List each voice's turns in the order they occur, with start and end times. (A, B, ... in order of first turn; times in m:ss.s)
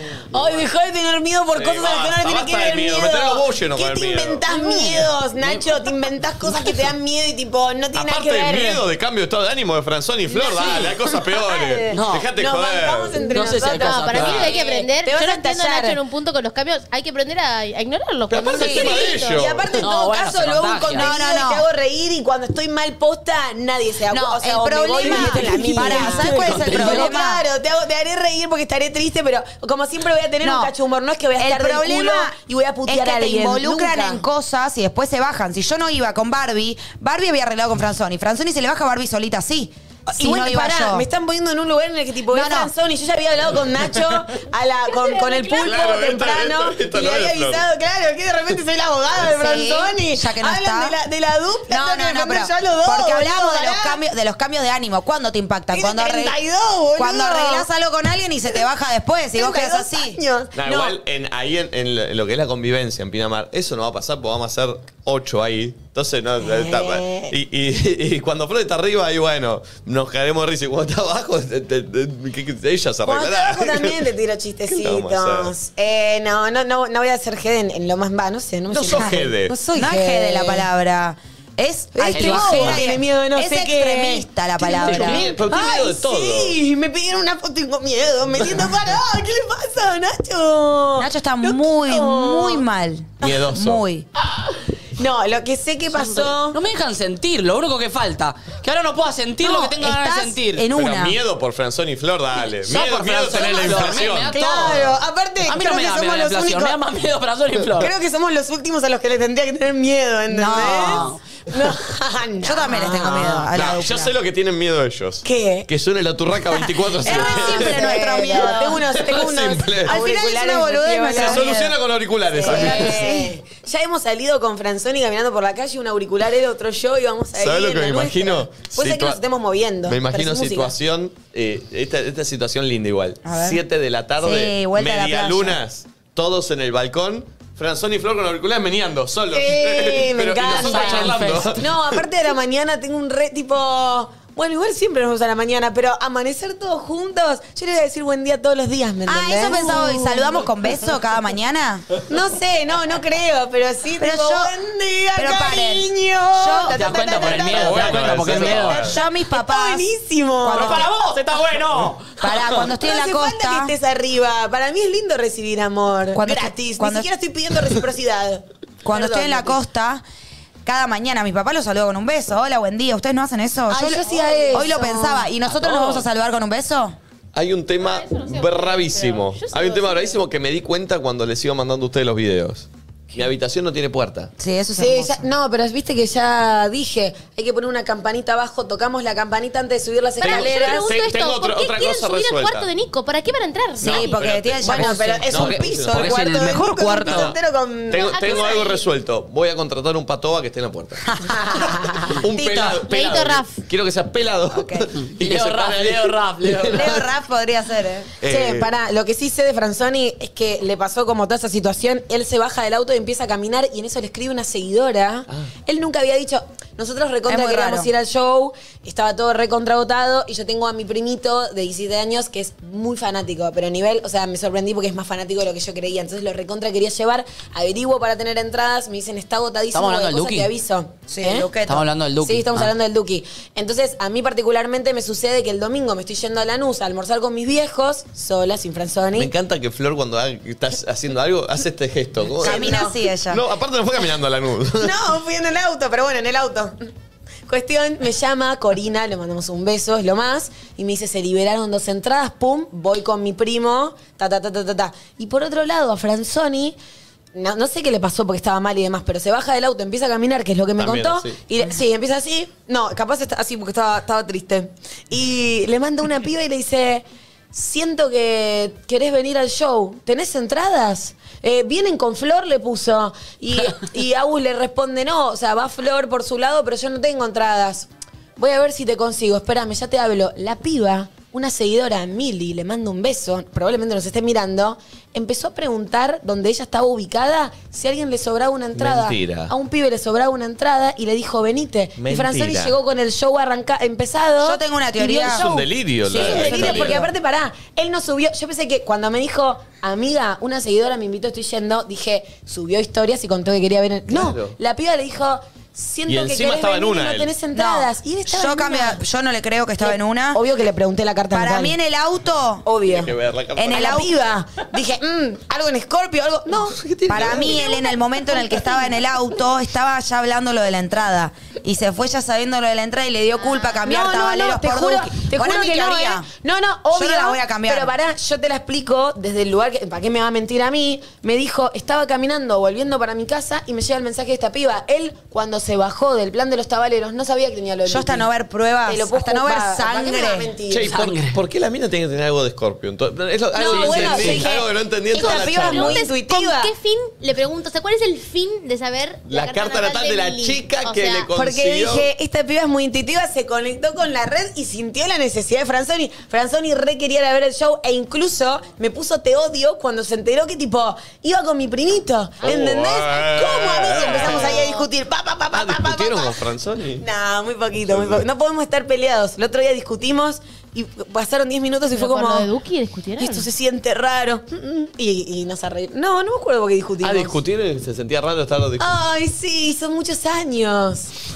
0:00.3-0:08.8 A
0:01.5-0:04.4 B
0:04.5-0:05.7 C
0:07.9-0:13.2 B
0:10.4-0:16.0 A
0:10.4-0:10.9 C
0:11.9-0:12.3 C
0:13.3-0:14.5 C
0:13.7-0:19.5 D
0:14.2-0:14.5 B
0:18.3-0:19.8 B
0:18.6-0:34.2 A
0:18.6-0:18.9 E
0:19.8-0:21.1 C
0:20.9-0:21.6 E
0:24.1-0:27.4 E
0:25.0-0:27.2 C
0:30.4-0:30.7 E
0:31.4-0:32.4 E
0:32.9-0:41.0 E
0:40.1-0:54.0 A
0:42.3-0:42.7 E
0:45.0-0:45.6 D
0:45.6-0:47.6 B
0:49.2-0:51.0 E
0:51.7-0:56.4 E
0:55.7-0:57.7 A
0:57.0-1:00.2 E
0:59.3-1:01.0 A
1:00.5-1:14.1 B
1:06.4-1:07.3 A
1:13.0-1:20.6 A
1:14.7-1:15.5 B
1:18.7-1:19.5 B
1:19.0-1:25.3 E
1:21.9-1:32.6 A
1:22.1-1:22.9 C
1:24.8-1:26.6 B
1:31.0-1:34.0 E
1:33.2-1:33.8 B
1:35.0-1:36.6 A
1:36.0-1:40.6 C
1:39.4-1:41.2 E
1:40.7-1:44.9 B
1:42.7-1:47.9 C
1:44.3-1:46.8 A
1:47.7-1:53.5 A
1:50.3-1:51.1 E
1:50.8-1:51.2 C
1:52.4-1:54.1 E
1:53.5-2:00.0 B
1:55.2-1:55.7 A
1:57.0-2:01.5 A
1:57.0-1:58.8 E
1:59.8-2:01.8 E
2:01.1-2:03.1 B
2:02.3-2:10.7 A
2:02.4-2:03.3 E
2:07.3-2:09.2 B
2:09.8-2:22.0 B
2:13.2-2:13.6 E
2:14.2-2:15.6 E
2:19.3-2:30.5 A
2:20.4-2:21.6 C
2:29.1-2:32.0 E
2:32.1-2:40.9 A
2:34.0-2:34.5 E
2:35.2-2:37.4 E
2:36.7-2:38.8 C
2:37.5-2:39.0 B
2:38.7-2:39.9 E
2:40.4-2:40.9 E
2:40.5-2:42.0 C
2:42.2-2:43.7 E
2:42.3-2:49.6 A
2:46.1-2:47.1 E
2:48.8-2:50.0 E
2:50.6-2:57.0 E
2:53.7-2:55.3 A
2:54.0-2:54.6 D
2:57.3-3:04.3 B
2:57.8-3:00.2 D
3:04.4-3:05.2 E
3:04.8-3:10.9 A
3:10.2-3:14.1 D
3:10.2-3:12.7 B
3:13.8-3:16.3 B
3:13.8-3:15.3 E
3:14.6-3:18.7 A
3:15.3-3:17.3 C
3:17.0-3:17.3 B
3:17.9-3:27.1 B
3:18.0-3:18.8 D
3:21.2-3:22.2 A
3:22.7-3:23.6 D
3:24.5-3:24.9 E
3:25.0-3:26.9 C
3:26.7-3:28.1 E
3:28.2-3:28.7 B
3:28.2-3:51.5 A
3:37.3-3:37.9 E
3:49.7-3:50.5 C
3:51.1-3:51.8 E
3:51.6-3:52.7 C
3:52.2-3:59.3 A
3:59.1-4:05.0 B
4:02.4-4:03.0 A
4:02.4-4:03.4 E
4:04.8-4:06.9 A
4:07.5-4:16.8 A
4:17.3-5:09.0 A
4:20.8-4:21.4 B
4:48.7-4:49.5 B
4:52.0-4:52.8 B
4:54.4-4:55.5 E
4:55.2-4:57.1 B
4:56.2-4:57.0 E
5:04.1-5:04.6 B
5:06.0-5:07.3 B
5:07.5-5:10.4 E
5:09.8-5:11.7 A
5:11.3-5:12.6 E
5:12.6-5:13.1 A
5:12.8-5:14.0 B
5:13.6-5:14.1 E
5:13.7-5:18.9 A
5:16.5-5:17.6 B
5:17.1-5:26.3 E
5:23.4-5:23.8 D
5:23.8-5:38.3 A
5:26.9-5:27.9 E
5:37.8-5:40.5 E
5:38.8-5:40.9 A
5:40.7-5:46.0 B
5:40.8-5:41.4 C
5:43.5-5:46.7 A
5:43.7-5:44.4 C
5:45.2-5:51.3 D
5:49.2-5:52.1 B
5:51.3-6:06.4 A
6:02.4-6:04.7 B
6:03.9-6:04.9 D
6:05.5-6:07.0 B
6:07.0-6:12.5 A
6:07.8-6:08.3 B
6:11.9-6:13.5 D
6:13.2-6:17.4 A
6:17.0-6:18.9 B
6:18.8-6:21.1 A